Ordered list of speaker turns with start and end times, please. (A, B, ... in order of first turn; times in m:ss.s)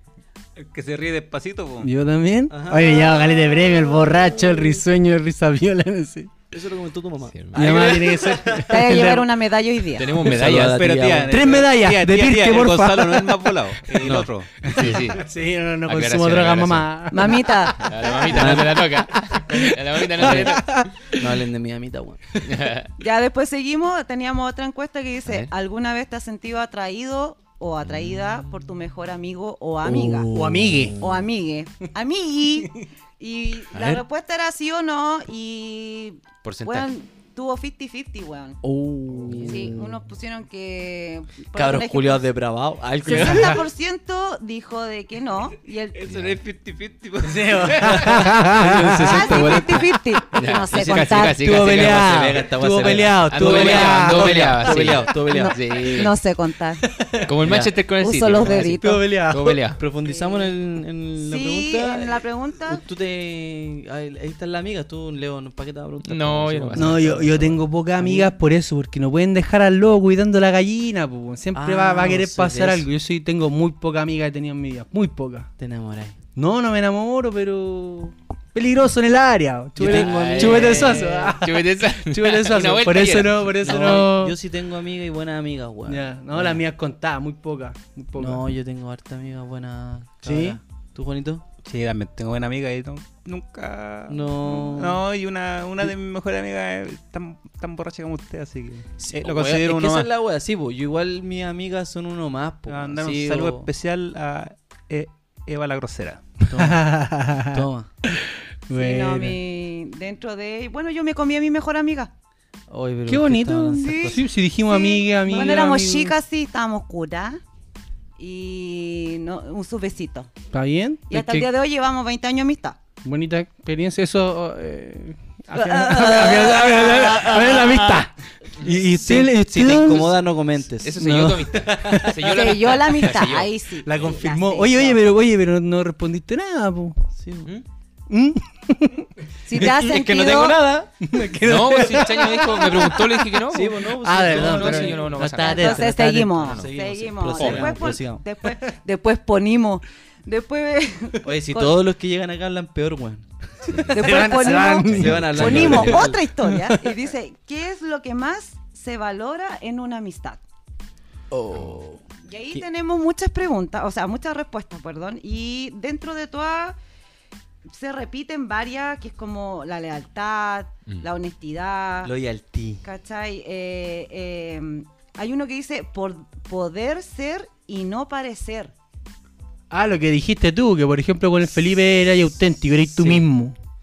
0:00.6-0:01.9 A
0:01.8-0:06.3 B
0:02.5-0:03.1 C
0:06.5-0:08.9 C
0:07.3-0:07.8 D
0:07.5-0:09.3 B
0:08.6-0:10.2 E
0:10.0-0:11.0 D
0:10.2-0:11.6 C
0:10.3-0:14.7 A
0:11.3-0:13.8 B
0:14.0-0:15.3 D
0:14.6-0:21.2 B
0:15.8-0:16.9 D
0:17.1-0:17.9 E
0:17.8-0:20.9 D
0:18.3-0:18.8 C
0:20.2-0:22.4 C
0:22.4-0:22.9 D
0:23.0-0:30.3 E
0:29.8-0:31.2 C
0:30.3-0:31.0 B
0:31.0-0:38.6 E
0:33.7-0:34.0 D
0:36.4-0:36.9 D
0:38.6-0:40.0 C
0:39.1-0:39.5 B
0:39.5-0:42.2 E
0:41.5-0:43.6 C
0:43.0-0:46.1 E
0:46.0-0:47.8 A
0:46.0-0:46.4 D
0:47.2-0:49.7 B
0:47.7-0:55.6 C
0:49.0-0:51.5 E
0:50.3-0:52.3 D
0:51.4-0:55.0 B
0:52.8-0:56.2 D
0:55.2-0:56.9 E
0:56.8-0:57.4 B
0:57.2-0:59.8 D
0:57.4-0:57.7 C
0:58.0-0:59.1 E
0:58.3-0:58.7 C
0:58.6-0:59.7 B
0:59.8-1:08.3 C
1:00.0-1:00.5 E
1:01.2-1:02.8 E
1:06.0-1:07.0 D
1:06.7-1:15.5 B
1:11.5-1:12.9 C
1:15.6-1:16.2 C
1:16.4-1:24.4 B
1:19.8-1:21.1 C
1:19.8-1:23.9 D
1:23.6-1:26.6 C
1:25.9-1:28.4 B
1:28.2-1:31.4 C
1:30.2-1:30.6 B
1:31.6-1:40.1 A
1:34.1-1:35.0 C
1:39.0-1:43.7 C
1:42.7-1:46.2 A
1:46.4-1:47.9 C
1:46.5-1:49.4 B
1:48.7-1:52.1 E
1:52.7-1:54.2 C
1:53.1-1:56.2 B
1:53.8-1:57.4 E
1:55.2-1:55.7 C
1:58.2-2:00.3 E
2:00.5-2:01.3 B
2:01.1-2:02.8 E
2:01.1-2:01.5 C
2:03.0-2:10.2 B
2:05.5-2:07.8 E
2:08.7-2:12.0 C
2:10.8-2:13.5 D
2:11.0-2:12.3 B
2:12.2-2:15.0 E
2:13.8-2:17.0 B
2:17.1-2:17.5 C
2:18.1-2:19.8 B
2:19.5-2:20.8 E
2:19.6-2:20.9 C
2:21.0-2:26.2 B
2:21.4-2:26.7 D
2:23.5-2:28.2 C
2:25.4-2:31.8 E
2:27.3-2:27.8 D
2:31.2-2:36.2 C
2:33.6-2:34.2 D
2:33.9-2:40.4 E
2:34.0-2:37.0 B
2:34.8-2:35.9 D
2:41.3-2:42.6 C
2:42.2-2:46.8 E
2:47.7-2:52.1 E
2:52.0-2:52.8 C
2:52.8-2:58.7 E
2:59.7-3:03.6 B
3:03.0-3:03.2 C